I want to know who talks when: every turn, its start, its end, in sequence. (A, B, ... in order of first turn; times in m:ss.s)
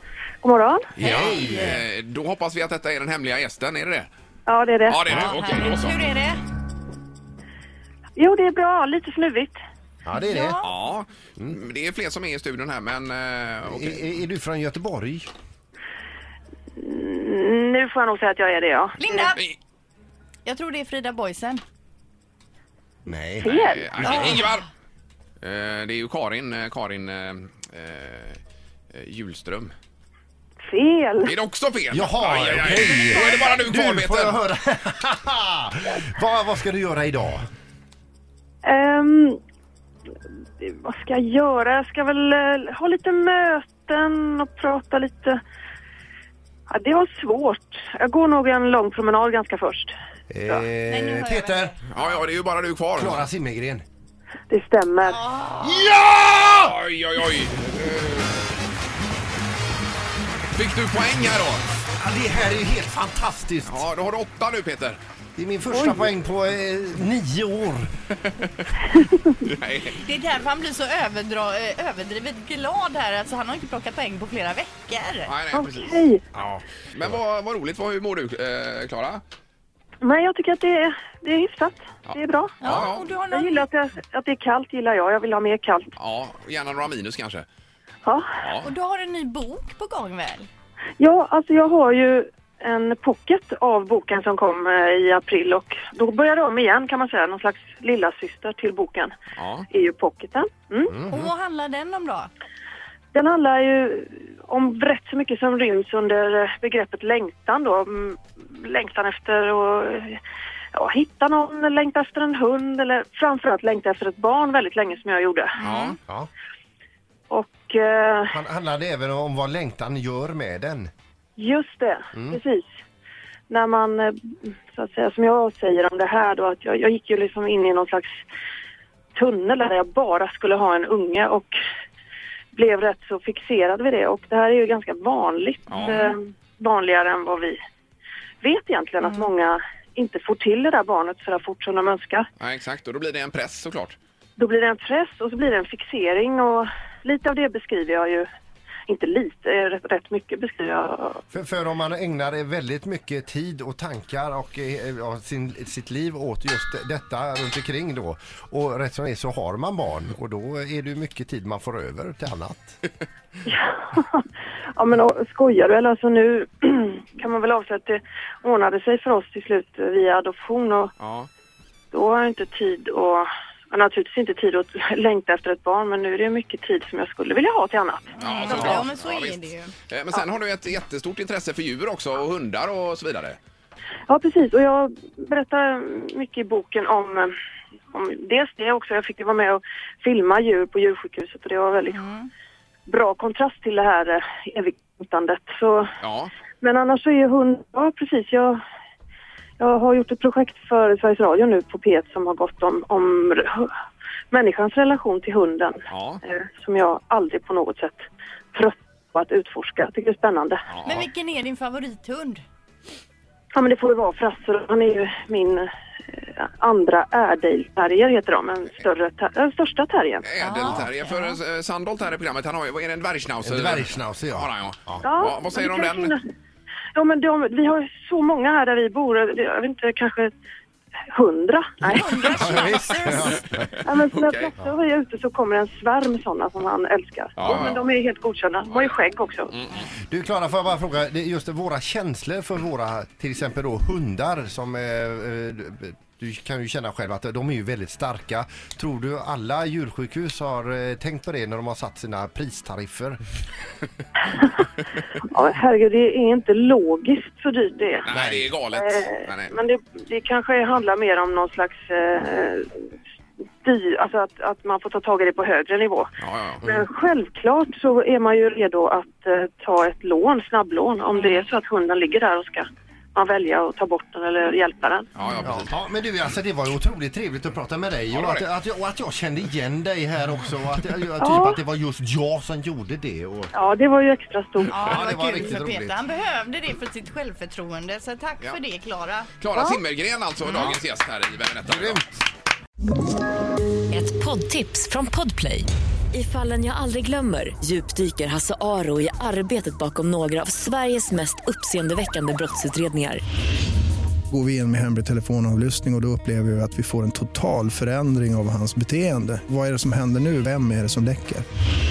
0:00.4-0:00.9 A
0:01.0-0:04.1 B
0:01.0-0:01.8 C
0:04.5-0:05.0 A
0:04.9-0:06.0 B
0:05.1-0:06.4 D
0:08.2-0:09.6 A
0:10.0-0:10.6 C
0:10.2-0:10.7 D
0:10.6-0:14.0 B
0:13.7-0:15.3 C
0:16.8-0:19.3 A
0:19.0-0:19.5 D
0:20.4-0:21.6 D
0:23.0-0:23.5 C
0:23.4-0:24.3 A
0:23.4-0:24.7 B
0:24.0-0:24.6 D
0:25.4-0:28.4 B
0:28.9-0:29.7 B
0:30.6-0:31.3 A
0:31.2-0:34.4 B
0:31.9-0:37.4 C
0:38.6-0:39.4 A
0:40.6-0:45.4 A
0:46.7-0:49.9 A
0:50.3-0:51.8 C
0:50.9-0:51.8 D
0:51.9-0:53.3 B
0:53.0-0:53.8 C
0:54.5-0:55.2 A
0:55.0-0:55.9 D
0:55.6-0:56.7 C
0:56.6-0:58.4 B
1:00.5-1:01.7 B
1:02.0-1:03.8 C
1:03.7-1:05.0 B
1:05.4-1:07.9 C
1:05.7-1:06.1 A
1:08.3-1:08.7 B
1:09.4-1:10.0 B
1:10.0-1:15.3 D
1:15.2-1:19.2 B
1:15.5-1:16.2 A
1:20.0-1:25.9 A
1:22.1-1:23.1 B
1:22.6-1:23.6 D
1:26.0-1:27.4 B
1:28.0-1:28.4 A
1:28.4-1:28.7 B
1:28.6-1:30.5 D
1:31.0-1:39.1 A
1:39.3-1:39.7 B
1:39.7-1:41.0 A
1:40.9-1:41.3 C
1:41.1-1:42.3 D
1:43.1-1:50.2 A
1:50.7-1:55.6 A
1:55.6-1:56.0 D
1:55.6-1:56.0 B
1:57.3-1:58.4 A
1:58.3-2:00.9 C
2:01.4-2:02.7 A
2:02.1-2:02.4 C
2:03.5-2:08.2 A
2:09.1-2:11.5 A
2:12.5-2:17.6 A
2:15.7-2:16.0 B
2:18.4-2:22.2 A
2:22.4-2:24.0 B
2:24.4-2:28.2 A
2:28.9-2:31.2 A
2:31.3-2:42.8 C
2:43.4-2:50.9 A
2:51.0-2:51.3 B
2:51.9-2:58.9 A
2:58.2-2:59.7 D
2:58.2-3:03.4 B
3:04.1-3:07.3 A
3:07.9-3:12.0 A
3:11.9-3:12.3 D
3:12.9-3:15.9 A
3:16.0-3:16.3 B
3:16.6-3:18.6 A
3:19.6-3:23.7 A
3:24.3-3:30.6 A
3:25.9-3:26.2 B
3:30.7-3:31.0 B
3:30.8-3:32.4 D
3:33.5-3:40.2 A
3:40.2-3:46.1 B
3:40.4-3:41.4 D
3:43.4-3:45.0 C
3:45.0-3:46.2 A
3:46.9-3:50.3 A
3:51.1-3:52.1 A
3:51.8-3:53.4 D
3:52.4-3:53.6 C
3:53.0-3:54.5 B
3:53.8-3:59.5 A
3:57.4-3:57.8 B
3:59.5-3:59.9 B
4:00.1-4:13.2 C
4:15.3-4:18.1 A
4:18.1-4:19.6 B
4:18.1-4:18.5 C
4:18.7-4:22.8 A
4:23.6-4:26.1 A
4:26.2-4:26.7 B
4:26.6-4:35.1 A
4:35.2-4:35.7 B
4:35.4-4:43.5 C
4:38.1-4:38.4 B
4:41.2-4:41.6 A
4:43.5-4:44.8 A
4:44.7-4:49.3 D
4:44.8-4:46.0 C
4:49.4-4:52.1 B
4:49.5-4:49.8 A
4:51.6-4:52.0 C
4:53.9-5:03.2 E
5:04.3-5:11.4 F